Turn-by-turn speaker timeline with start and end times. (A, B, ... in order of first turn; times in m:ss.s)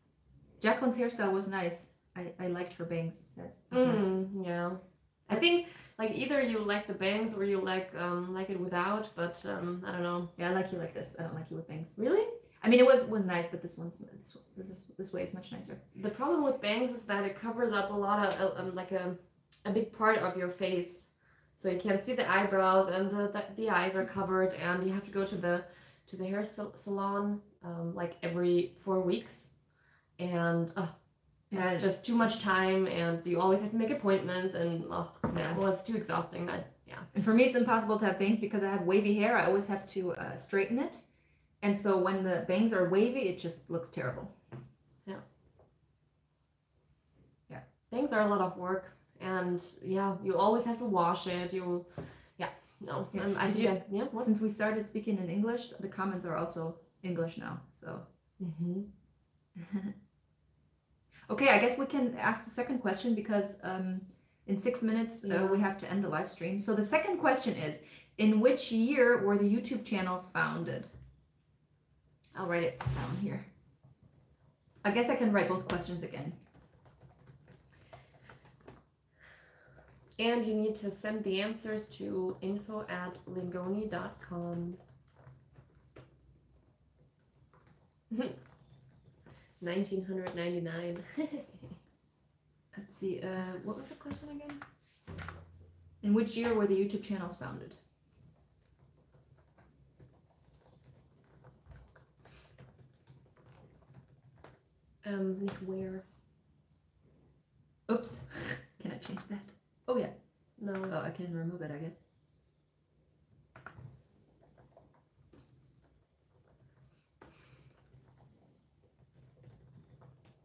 0:00.6-0:04.1 A
0:03.7-0:10.3 B
0:10.4-0:12.0 A
0:12.0-0:12.3 B
0:12.6-0:15.8 A
0:15.9-0:29.5 B
0:30.2-0:30.9 B
0:31.5-0:31.9 A
0:31.5-0:37.1 B
0:35.3-0:35.6 A
0:37.1-0:41.0 A
0:41.6-0:44.3 A
0:47.9-0:54.3 B
0:53.1-0:58.0 A
0:58.4-0:58.9 B
0:59.5-0:59.9 A
1:01.3-1:10.9 A
1:05.2-1:05.6 B
1:12.3-1:13.5 A
1:14.8-1:16.3 A
1:20.2-1:24.8 B
1:29.6-1:31.6 B
1:32.7-1:34.6 A
1:36.0-1:37.8 A
1:45.0-1:46.0 B
1:47.9-1:50.2 A
1:50.6-1:50.9 B
1:50.8-1:52.0 A